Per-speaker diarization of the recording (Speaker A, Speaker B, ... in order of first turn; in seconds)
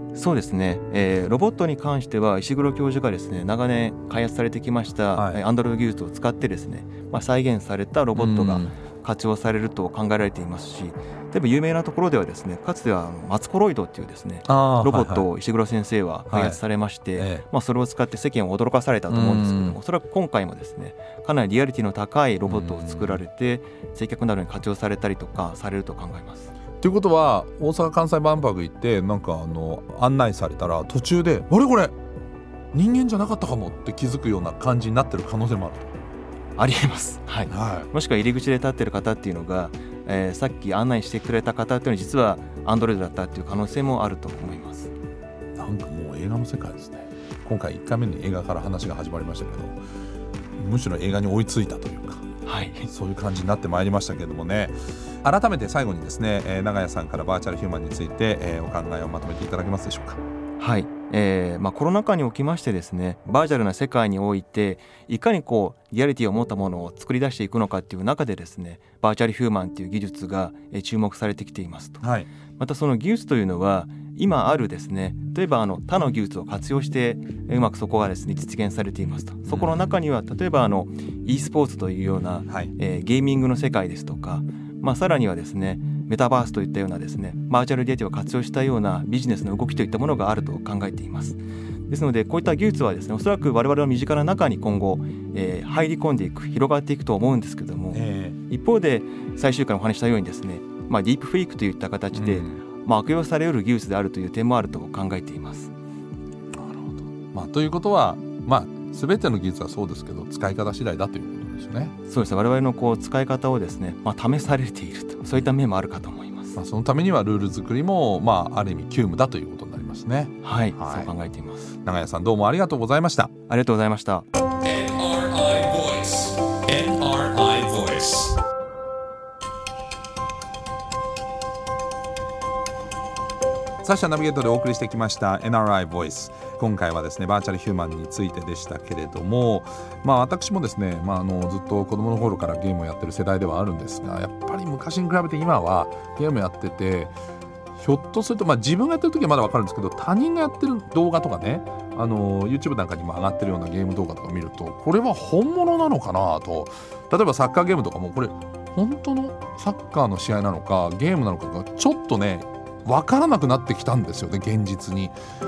Speaker A: 0.1-26.5, 36.6-44.9, 52.5-52.9, 60.6-105.7, 112.1-116.6, 120.4-121.7, 123.5-124.3
Speaker B: 5.2-5.4, 8.2-8.7, 14.4-15.3, 16.3-16.6, 17.2-17.4, 19.1-19.8, 22.4-23.2, 26.8-31.9, 32.7-35.9, 37.5-37.9, 45.6-49.8, 50.6-52.2, 52.9-60.2, 72.0-72.3, 79.5-80.0, 97.9-98.4, 102.1-102.6, 106.5-111.9, 116.6-121.1, 121.8-123.3, 124.6-128.4, 133.8-147.2, 147.8-165.2